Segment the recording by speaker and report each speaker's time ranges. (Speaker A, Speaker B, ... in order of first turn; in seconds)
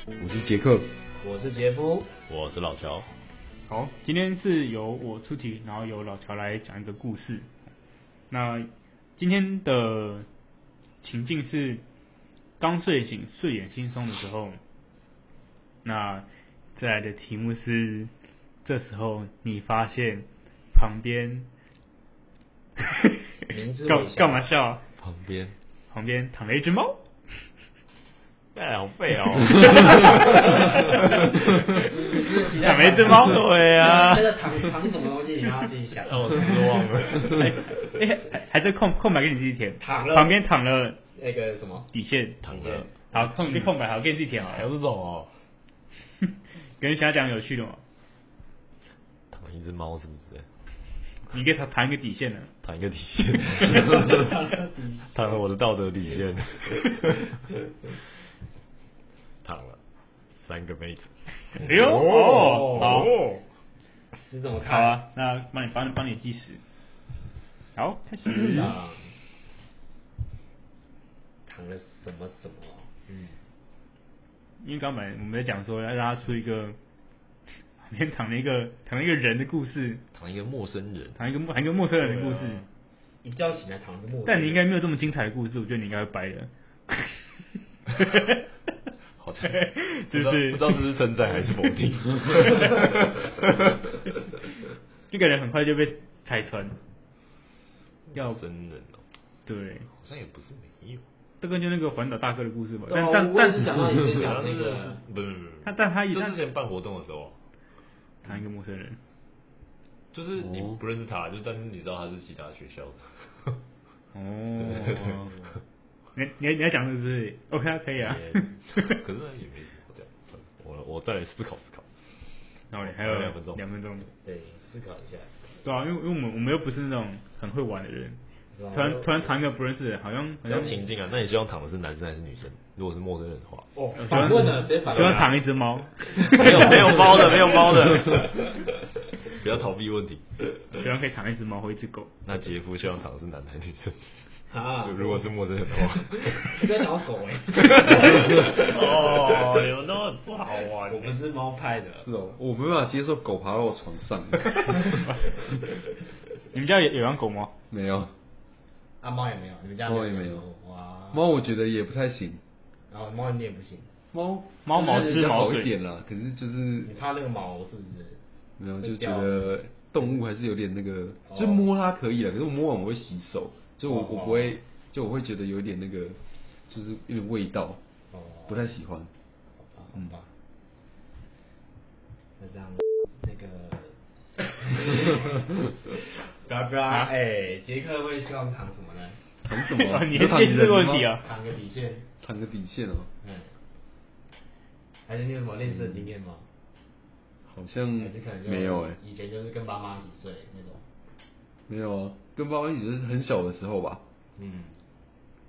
Speaker A: 0.2-0.9, 152.0-154.6, 157.7-158.1, 159.8-160.4, 161.1-162.4, 164.1-166.9, 168.6-177.8, 178.5-179.1, 189.4-191.1, 192.2-193.1, 197.5-199.0, 201.7-204.0
Speaker B: 1.2-2.1, 23.5-24.5, 31.1-36.9, 39.8-40.4, 41.1-41.9, 42.5-43.0, 53.6-55.4, 62.3-62.7, 64.1-65.0, 68.4-69.1, 71.5-72.9, 83.2-84.6, 102.8-105.0, 124.1-125.3, 128.6-129.2, 133.8-135.4, 136.1-138.5, 144.5-145.3, 145.8-148.8, 150.9-152.1, 159.0-161.4, 162.9-163.9, 164.8-165.2, 166.8-168.2, 168.8-170.1, 171.3-171.7, 173.9-174.6, 178.1-178.6, 179.7-180.3, 182.4-189.2, 191.2-192.1, 193.2-193.5, 195.1-196.5, 198.0-200.8, 204.4-204.8
Speaker C: 2.3-3.1, 25.0-25.6, 28.6-31.4, 33.0-34.5, 36.0-37.5, 42.4-43.6, 44.4-45.3, 49.3-50.5, 52.6-54.3, 55.1-57.3, 59.4-59.8, 60.4-63.4, 73.1-73.3, 80.1-81.2, 82.0-82.7, 89.2-93.8, 98.1-99.0, 99.9-101.0, 104.1-107.4, 110.1-113.6, 114.6-115.6, 118.0-121.9, 122.8-123.6, 130.4-133.7, 136.3-138.7, 139.2-140.2, 142.2-146.7, 147.6-151.2
Speaker D: 3.7-7.5, 8.3-10.3, 11.0-11.8, 12.6-14.6, 15.8-18.1, 18.6-21.5, 22.9-24.8, 25.9-27.4, 29.8-31.8, 32.5-33.6, 37.2-41.0, 41.9-42.5, 43.0-44.7, 46.2-47.8, 51.3-52.5, 61.5-63.1, 64.7-66.6, 67.8-68.8, 74.6-76.8, 77.8-80.0, 81.2-82.7, 84.2-88.5, 89.4-90.8, 95.1-96.8, 98.1-98.4, 99.5-99.9, 101.4-104.2, 105.6-106.5, 108.2-109.0, 114.1-115.4, 116.2-119.0, 122.7-124.1, 125.6-128.2, 128.7-130.8, 133.9-137.5, 140.7-142.1, 156.5-157.5, 164.6-165.7, 189.5-191.3